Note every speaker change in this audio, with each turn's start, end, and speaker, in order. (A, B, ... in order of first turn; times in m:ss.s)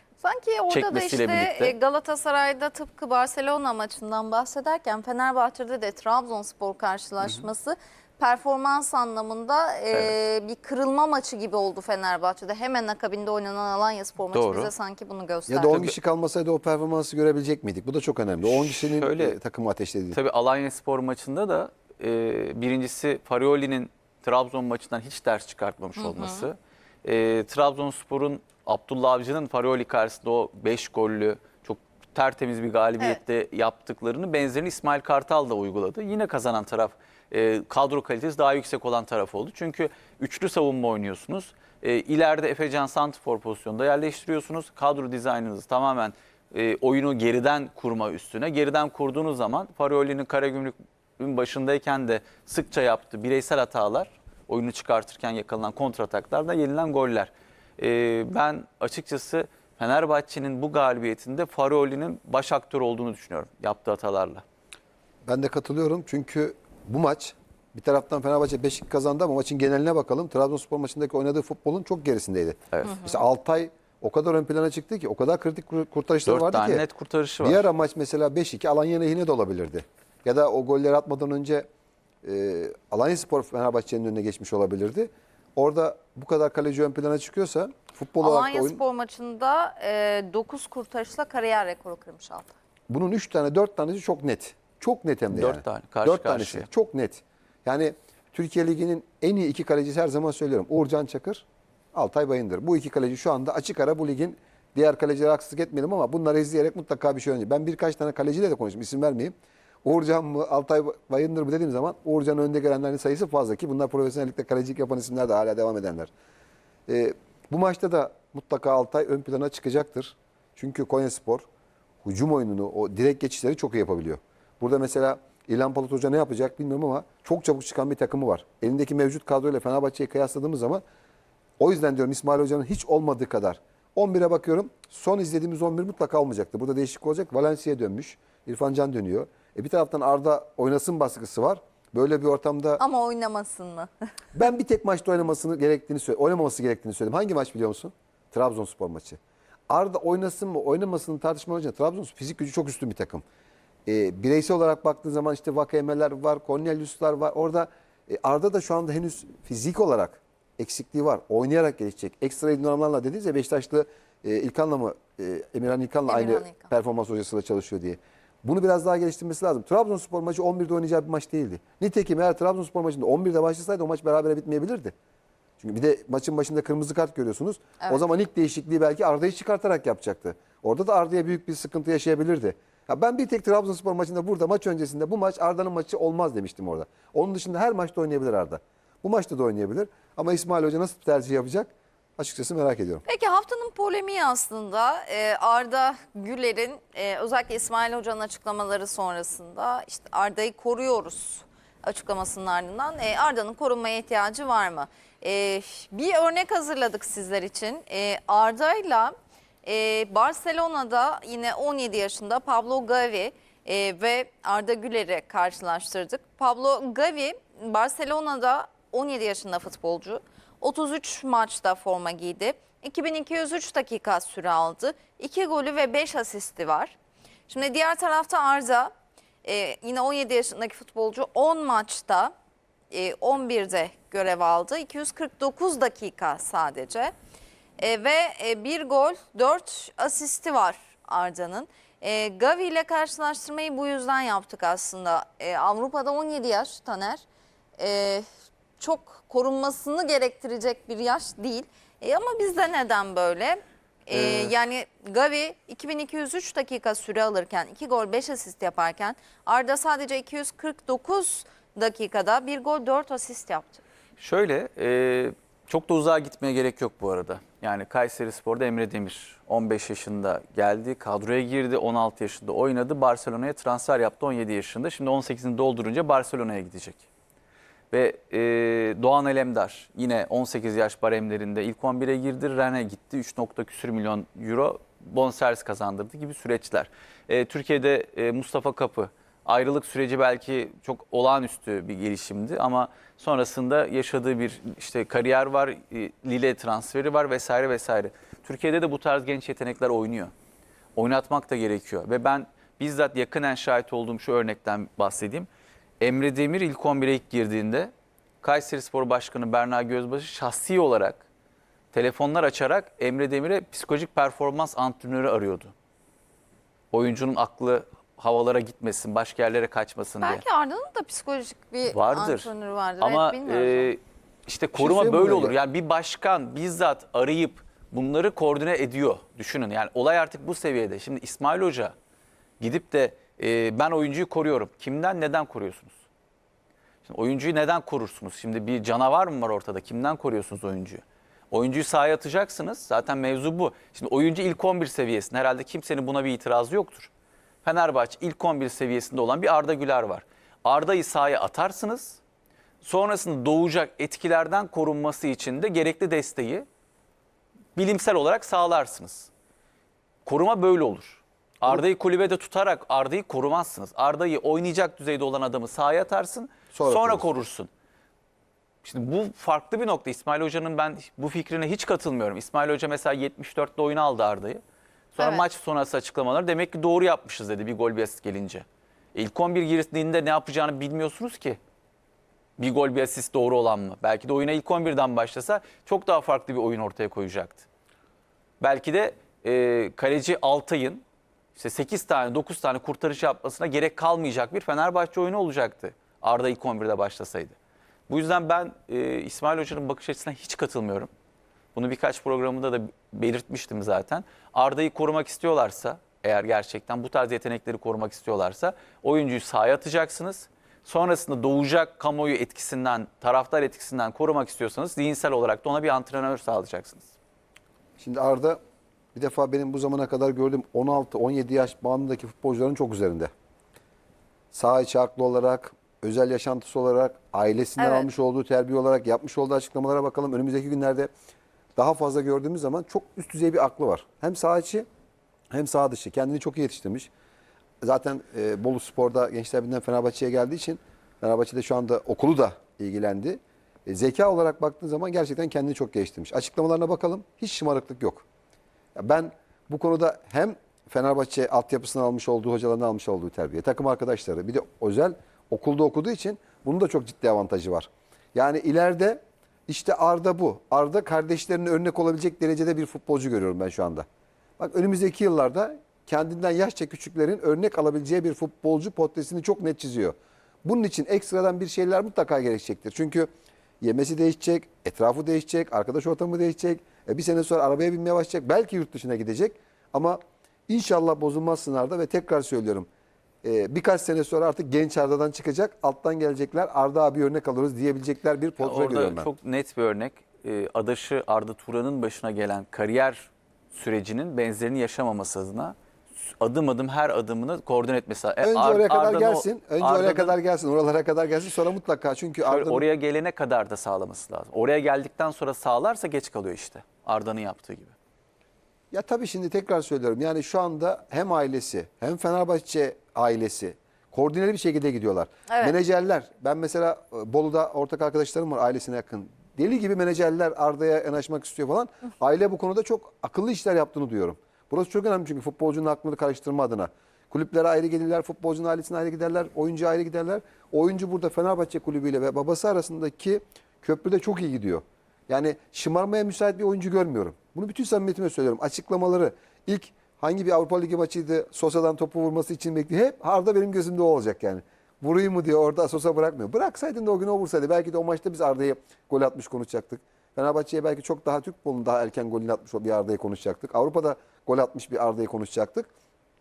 0:00.2-0:15.9 A
0:00.7-0:01.8 B
0:14.3-0:14.7 B
0:15.5-0:20.2 C
0:18.4-0:19.4 B
0:20.1-1:04.4 B
0:26.0-0:26.5 A
1:05.3-1:16.8 C
1:12.8-1:13.1 A
1:16.3-1:17.7 B
1:17.4-1:21.7 C
1:22.2-1:28.8 C
1:28.2-1:32.5 A
1:32.9-1:56.1 C
1:35.3-1:36.7 B
1:56.9-2:01.5 C
2:02.0-2:10.8 C
2:11.6-2:22.8 C
2:22.8-2:23.9 A
2:24.3-2:29.2 C
2:29.7-2:33.2 C
2:33.9-2:54.9 C
2:46.1-2:46.7 A
2:55.6-3:13.0 C
2:57.8-2:58.1 A
3:13.0-3:47.0 A
3:47.5-3:48.9 A
3:49.4-3:52.3 A
3:52.9-3:57.1 A
3:57.8-4:07.2 A
4:07.8-4:08.2 A
4:08.8-4:23.8 A
4:14.1-4:14.5 B
4:24.2-4:37.0 B
4:37.9-5:00.3 B
5:01.0-5:05.5 B
5:06.0-5:11.2 B
5:11.9-5:15.7 B
5:16.9-5:20.4 B
5:20.2-5:23.9 A
5:21.9-5:22.5 B
5:23.0-5:31.9 B
5:24.8-5:25.6 C
5:32.6-5:36.0 B
5:37.0-5:47.1 B
5:47.6-5:52.2 B
5:52.8-5:56.7 B
5:57.8-5:59.3 B
6:00.3-6:07.7 B
6:06.7-6:07.3 C
6:08.8-6:14.6 B
6:15.1-6:21.6 B
6:15.2-6:15.4 A
6:22.6-6:27.7 B
6:28.6-6:31.0 B
6:31.6-6:37.6 B
6:38.1-6:41.1 B
6:41.8-6:57.1 B
6:58.0-6:58.6 C
6:59.2-7:03.3 C
7:04.5-7:11.1 C
7:07.8-7:08.1 A
7:11.8-7:14.9 C
7:15.5-7:17.1 C
7:17.8-7:28.2 C
7:29.0-7:44.1 C
7:44.6-7:53.3 C
7:53.8-8:02.9 C
8:03.4-8:09.3 C
8:08.6-8:20.4 B
8:18.4-8:22.9 C
8:22.4-8:28.0 B
8:28.9-9:15.9 C
8:35.5-8:35.8 A